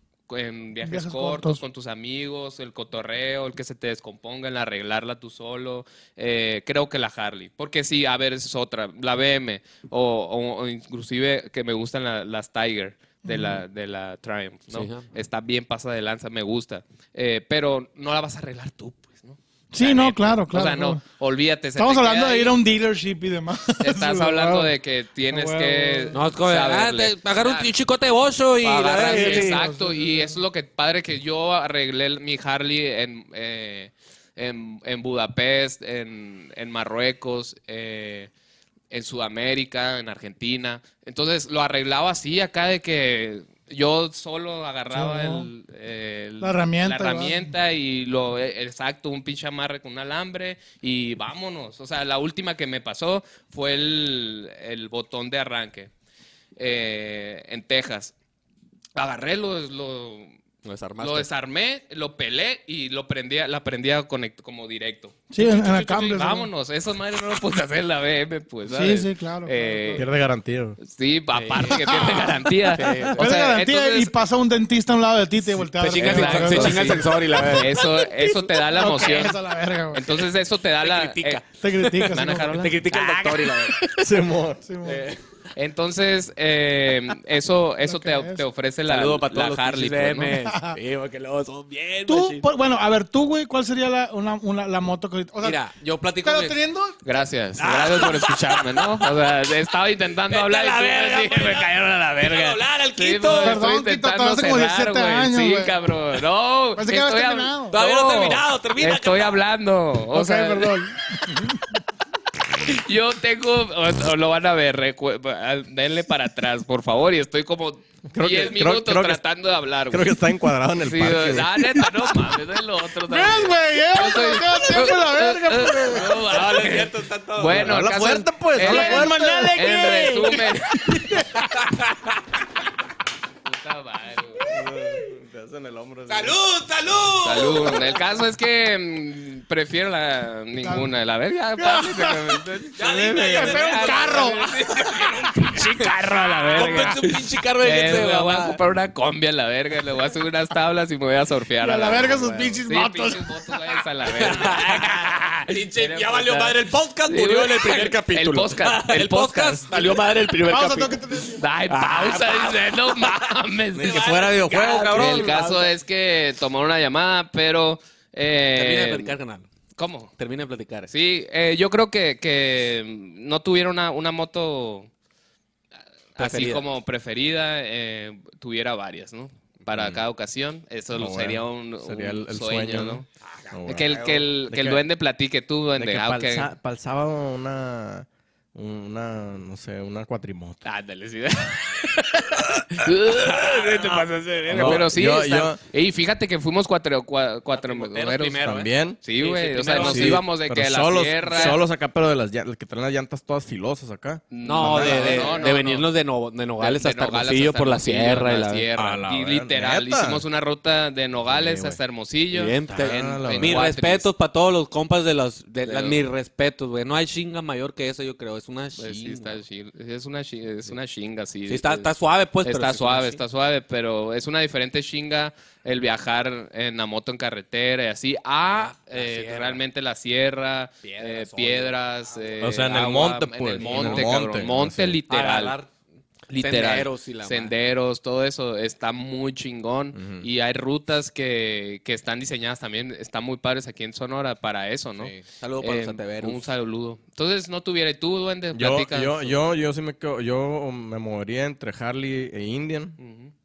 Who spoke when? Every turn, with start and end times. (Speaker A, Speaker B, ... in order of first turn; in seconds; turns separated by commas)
Speaker A: 0.3-22.6, Speaker B: 0.8-1.6, Speaker B: 13.2-13.6, Speaker C: 14.7-15.1, Speaker B: 19.7-21.0, Speaker B: 21.8-24.7, Speaker A: 23.8-27.7, Speaker B: 25.3-26.2, Speaker C: 26.1-29.6, Speaker A: 28.6-38.3, Speaker B: 29.1-30.4, Speaker A: 38.9-55.9, Speaker B: 44.9-45.5, Speaker B: 46.4-47.5, Speaker A: 56.6-58.1, Speaker A: 59.0-60.4, Speaker C: 60.6-61.3, Speaker A: 61.0-70.1, Speaker B: 65.3-66.5, Speaker B: 68.7-70.1, Speaker D: 70.0-70.8, Speaker A: 70.8-74.1, Speaker C: 71.3-72.1, Speaker B: 71.7-72.5, Speaker C: 72.7-73.3, Speaker B: 73.2-77.1, Speaker C: 75.6-78.1, Speaker A: 75.9-79.4, Speaker B: 78.6-80.3, Speaker A: 79.9-83.8, Speaker C: 80.8-83.8, Speaker B: 81.6-82.8, Speaker D: 84.0-84.6, Speaker B: 84.6-85.1, Speaker C: 84.8-85.2, Speaker A: 85.5-90.4, Speaker B: 87.8-88.4, Speaker C: 88.9-92.5, Speaker B: 90.4-90.8, Speaker B: 92.1-95.6, Speaker C: 95.4-96.6, Speaker B: 96.2-97.0, Speaker A: 97.0-111.2, Speaker C: 97.6-99.3, Speaker C: 100.3-103.6, Speaker B: 103.4-105.8, Speaker B: 106.8-107.8, Speaker C: 107.7-109.4, Speaker B: 110.1-111.8, Speaker A: 112.5-120.2, Speaker D: 118.1-119.2, Speaker D: 119.9-121.8, Speaker A: 120.8-131.3, Speaker B: 123.0-126.2, Speaker C: 126.1-127.9, Speaker D: 126.4-130.2, Speaker B: 128.6-131.2, Speaker C: 131.2-132.1, Speaker A: 133.4-134.5, Speaker D: 134.5-136.4, Speaker C: 136.1-138.0, Speaker A: 137.2-159.8, Speaker B: 140.6-140.9, Speaker B: 141.6-142.4, Speaker C: 142.8-148.6, Speaker D: 142.9-143.3, Speaker B: 142.9-144.5, Speaker B: 151.6-153.5, Speaker C: 152.0-152.6, Speaker C: 154.1-161.0, Speaker B: 160.5-161.4, Speaker A: 161.4-164.1, Speaker C: 161.7-165.7, Speaker D: 163.7-165.5, Speaker A: 164.9-169.1, Speaker C: 168.5-169.5, Speaker A: 169.8-170.1, Speaker C: 170.2-170.9, Speaker A: 170.9-174.9, Speaker A: 176.2-183.1, Speaker C: 176.2-176.7, Speaker D: 179.7-180.0, Speaker D: 180.9-184.8, Speaker A: 183.7-186.5, Speaker D: 185.8-190.6, Speaker A: 190.7-201.6, Speaker C: 193.1-194.9, Speaker D: 194.5-195.6, Speaker C: 197.5-200.2, Speaker D: 198.4-199.0, Speaker D: 199.7-205.5, Speaker C: 201.3-201.6, Speaker A: 204.3-205.9, Speaker C: 204.4-208.7, Speaker A: 206.6-214.1, Speaker D: 208.8-210.2, Speaker D: 211.3-211.8, Speaker C: 212.3-219.4, Speaker D: 212.7-213.7, Speaker A: 215.7-216.0, Speaker A: 218.8-221.9, Speaker C: 221.5-223.2, Speaker A: 222.4-235.6, Speaker C: 228.5-229.6, Speaker C: 230.8-232.3, Speaker D: 232.4-235.0, Speaker C: 233.6-234.2, Speaker C: 235.1-235.7, Speaker C: 236.3-237.5, Speaker A: 236.3-249.4, Speaker D: 239.9-240.3, Speaker C: 245.0-246.5, Speaker D: 248.5-253.0, Speaker A: 253.0-253.3